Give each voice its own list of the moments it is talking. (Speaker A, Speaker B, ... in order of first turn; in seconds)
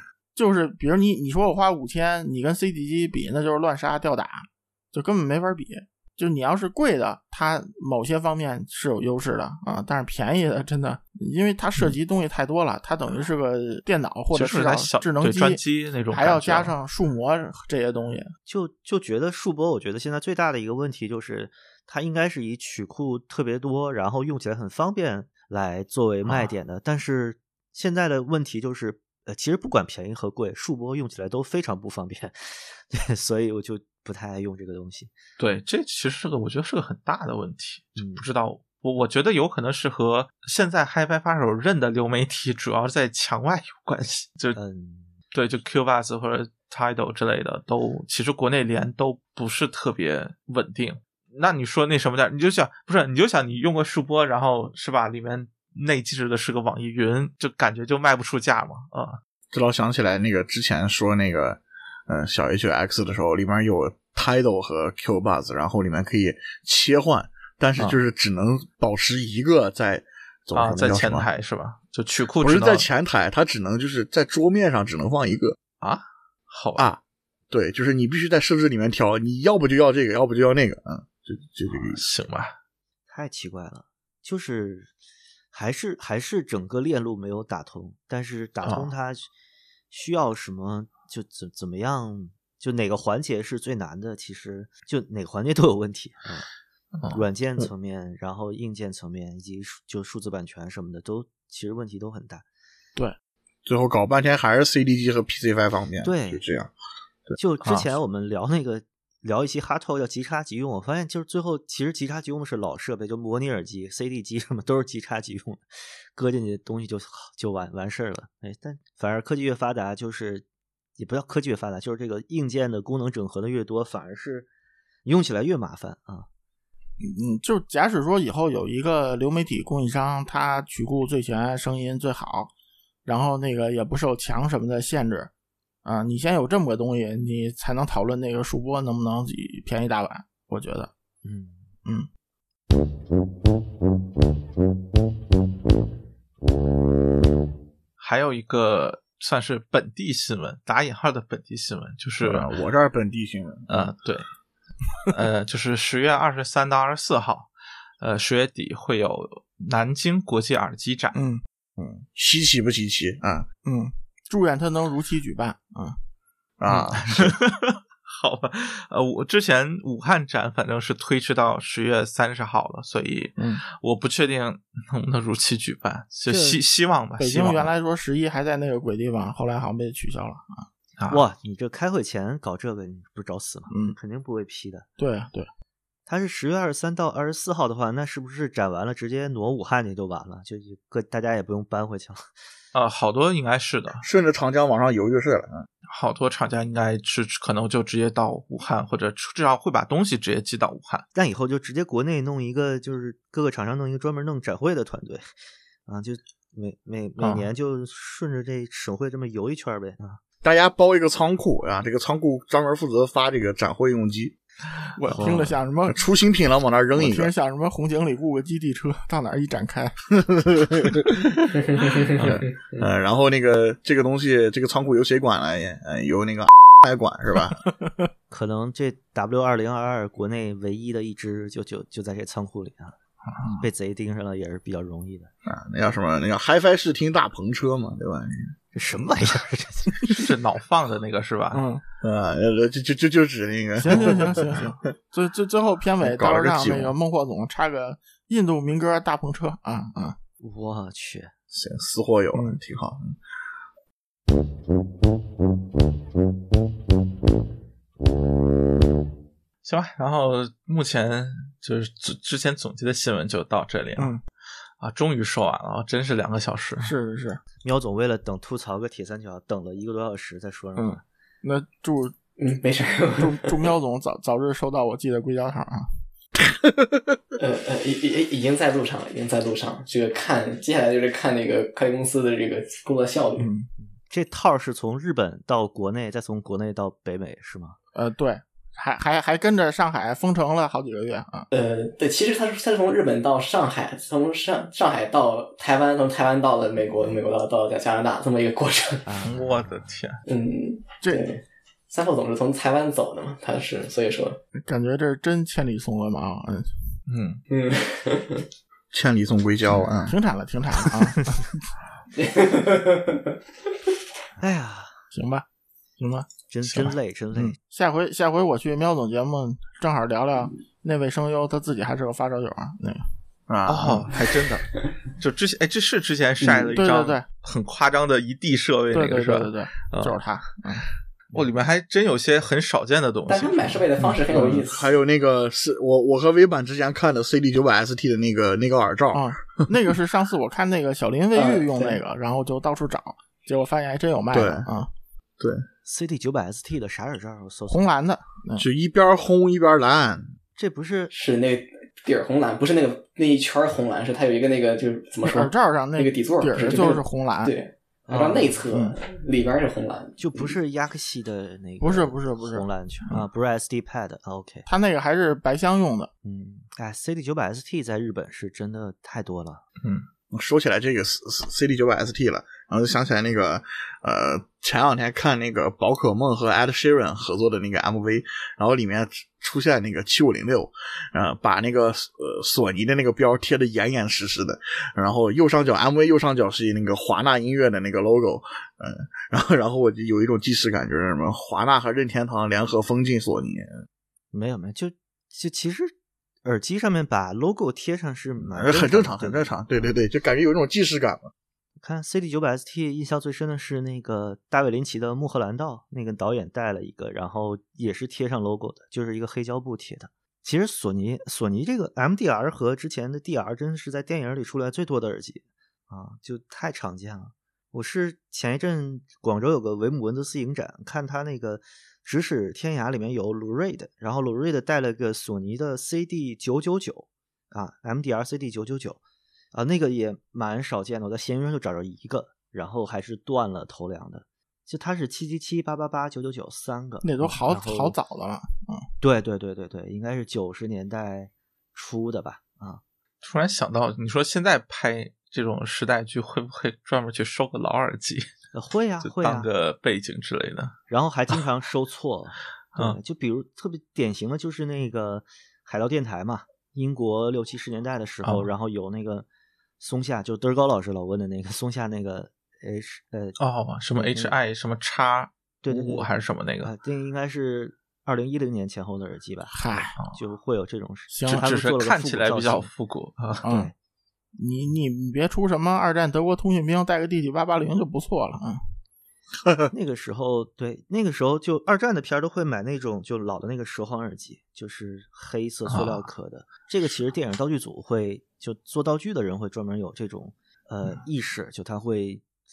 Speaker A: 0.3-18.3, 127.0-132.5, 133.1-135.3, 135.8-140.9, 161.1-161.4, 163.7-166.0, 177.2-180.6, 183.7-183.9, 185.0-185.5, 214.9-216.0, 216.9-219.9, 241.5-241.8, 243.8-250.1, 252.3-252.6, 263.9-264.2, 266.8-267.4, 270.8-272.1, 273.2-275.9, 283.4-283.7, 287.9-291.5, 304.6-306.7, 310.1-311.4, 315.1-315.4, 316.0-316.3, 317.3-323.0, 326.7-327.2, 328.9-330.9, 339.1-344.9, 347.7-348.6, 355.2-357.5, 361.8-362.6, 364.7-366.1, 437.0-438.8, 469.5-470.0, 471.1-471.4, 473.4-473.7, 474.4-478.6
Speaker B: 14.3-16.7, 26.2-26.5, 35.4-44.6, 45.3-59.2, 70.5-72.8, 75.8-76.8, 82.0-82.5, 88.6-88.9, 96.9-97.7, 107.6-107.9, 148.0-152.5, 153.7-154.2, 155.1-157.5, 158.0-161.1, 166.7-177.7, 181.0-181.2, 192.7-194.0, 195.9-201.1, 207.2-207.4, 215.1-215.4, 240.1-241.6, 259.6-264.1, 264.8-266.9, 299.2-300.2, 307.1-307.4, 316.6-316.9, 323.7-324.7, 325.2-330.2, 331.3-334.6, 443.2-448.3, 449.0-450.8, 458.2-458.5, 463.4-466.7, 471.2-473.4, 485.7-486.1
Speaker C: 18.5-35.1, 38.0-38.2, 44.5-45.1, 81.7-82.0, 83.1-84.9, 85.5-89.3, 89.9-96.5, 97.1-102.4, 106.0-106.4, 107.4-120.5, 121.0-124.5, 125.0-126.3, 141.2-141.7, 176.3-176.6, 181.1-184.9, 186.1-192.3, 201.1-205.3, 205.9-210.2, 228.3-232.9, 233.6-235.3, 238.7-240.3, 250.4-251.3, 267.6-271.0, 283.8-287.8, 299.0-299.9, 314.4-315.0, 316.5-317.6, 345.8-347.9, 350.6-351.1, 358.1-358.6, 360.2-364.7, 366.2-369.6, 394.3-395.9, 396.4-399.9, 401.8-429.0, 429.5-437.9, 439.0-442.8, 448.5-449.5, 450.9-459.3, 459.8-463.4, 464.0-464.3, 465.6-466.1, 466.6-472.7, 473.4-473.7, 479.7-492.2
Speaker D: 59.5-71.3, 72.4-75.5, 76.8-82.0, 103.6-106.7, 152.2-153.8, 161.8-163.5, 166.6-167.4, 194.0-195.7, 210.4-214.3, 215.9-217.3, 220.3-221.2, 222.2-227.6, 235.4-238.5, 242.0-244.5, 246.0-246.9, 251.5-253.2, 308.9-310.1, 323.5-324.1, 334.6-339.3, 344.3-344.7, 348.6-350.3, 370.3-393.7, 398.4-401.3
Speaker E: 221.8-222.8, 272.4-273.6, 277.4-283.5, 291.5-299.0, 300.2-304.4, 307.5-308.4, 312.1-313.3, 326.4-326.8, 333.3-334.9, 341.3-342.0, 351.1-360.5